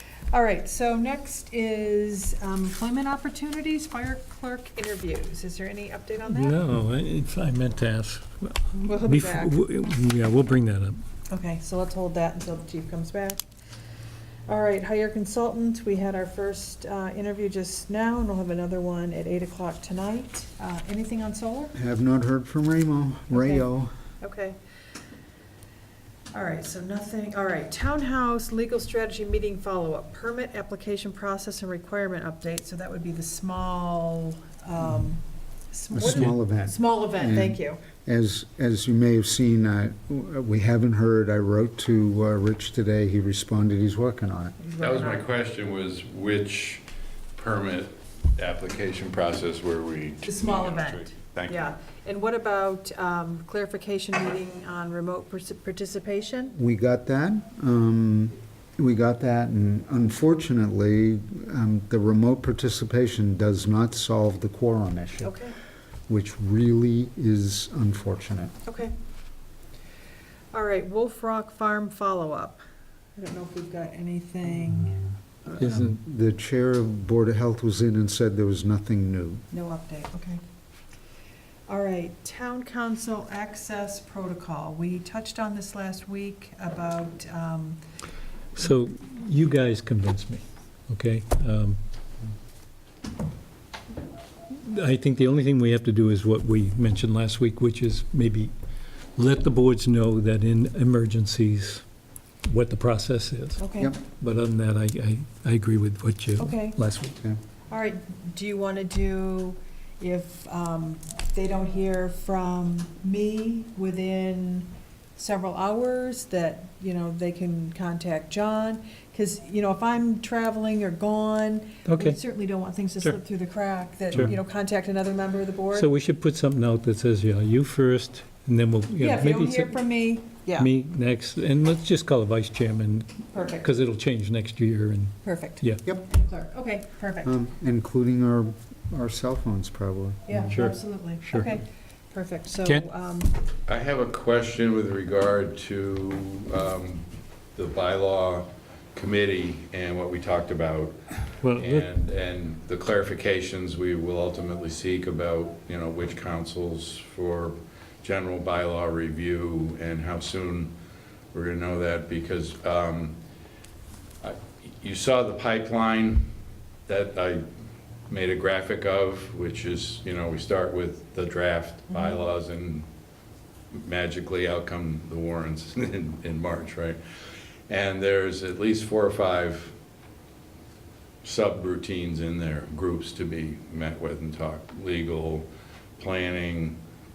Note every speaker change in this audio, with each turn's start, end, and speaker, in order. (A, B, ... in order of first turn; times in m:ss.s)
0:00.3-0:06.6 A
0:06.2-0:11.0 B
0:08.7-0:09.6 A
0:11.3-0:13.4 A
0:14.5-0:21.7 A
0:21.7-0:23.9 C
0:23.3-0:23.7 A
0:24.2-0:24.6 A
0:26.3-0:37.8 A
0:35.9-0:44.5 C
0:44.6-0:45.2 A
0:44.8-0:46.8 D
0:47.4-0:51.7 D
0:50.2-0:56.6 A
0:56.6-1:05.3 C
1:05.2-1:05.5 A
1:06.1-1:08.5 C
1:08.6-1:08.9 A
1:10.5-1:12.6 A
1:13.2-1:15.0 A
1:15.4-1:19.4 C
1:15.6-1:16.0 B
1:19.5-1:20.4 A
1:21.7-1:27.8 A
1:28.5-1:31.8 B
1:34.5-1:38.5 B
1:39.2-1:41.8 B
1:42.4-1:43.6 B
1:43.6-1:44.0 A
1:44.2-1:47.2 B
1:46.4-1:46.8 A
1:47.7-2:05.9 A
2:01.8-2:02.2 B
2:05.7-2:09.8 B
2:09.0-2:10.7 A
2:10.5-2:15.8 B
2:13.3-2:13.7 A
2:15.2-2:17.3 A
2:17.2-2:20.5 C
2:20.3-2:23.4 A
2:20.5-2:21.5 B
2:23.7-2:40.7 D
2:31.4-2:31.8 B
2:41.3-2:43.2 D
2:44.2-2:46.3 D
2:46.9-2:47.4 D
2:48.1-2:52.8 D
2:53.7-2:57.0 D
2:57.7-2:59.7 D
3:01.2-3:06.8 D